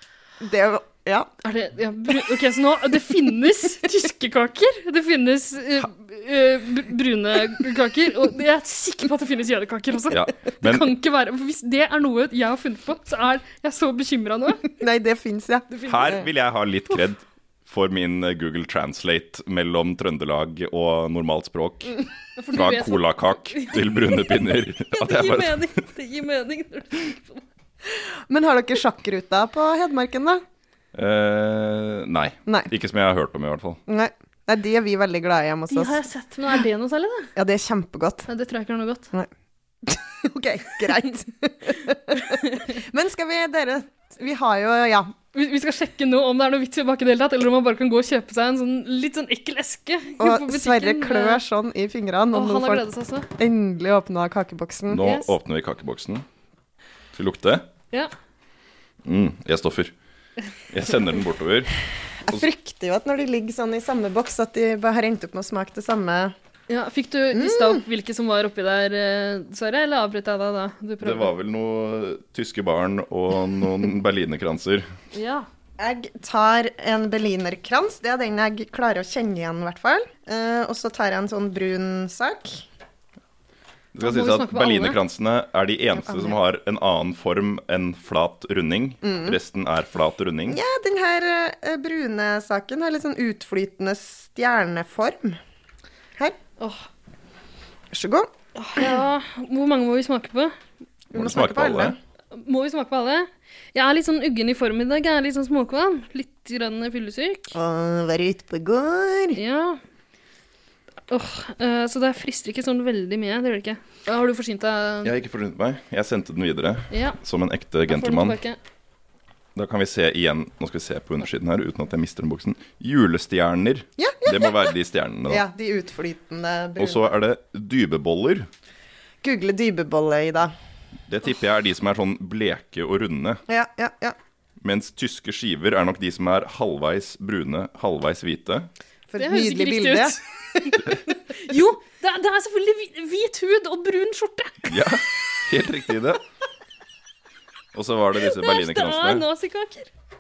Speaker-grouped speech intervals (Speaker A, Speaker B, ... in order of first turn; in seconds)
Speaker A: 0.4-1.3, 14.8-16.2, 27.9-30.4, 33.9-36.0, 37.3-38.3, 39.8-45.1, 50.2-52.9, 53.4-55.0, 62.2-66.3, 67.3-67.8, 75.8-82.6, 85.9-86.4, 89.0-89.4, 90.5-95.4, 97.9-99.0, 101.1-102.0, 107.5-109.4, 124.0-124.7, 125.3-127.1, 129.2-130.5, 133.5-134.2, 139.1-140.7
Speaker B: 1.4-14.7, 15.7-16.2, 22.4-27.4, 35.7-37.3, 38.3-39.1, 42.2-42.8, 45.3-51.4, 52.3-53.3, 55.0-55.3, 66.7-71.3, 75.1-75.5, 84.0-85.0, 96.6-96.9, 98.5-100.5, 102.3-107.5, 109.3-109.8, 111.1-115.1, 116.9-117.2, 117.9-118.6, 139.2-144.9, 148.2-149.9
Speaker C: 10.1-10.9, 15.9-25.8, 30.9-33.8, 54.9-56.2, 57.1-57.6, 59.0-59.9, 60.7-61.7, 71.0-74.9, 83.9-90.6, 101.1-102.0, 115.0-118.4, 119.5-125.4, 126.8-128.5, 131.1-133.4, 134.6-138.7, 144.7-146.2, 147.7-149.2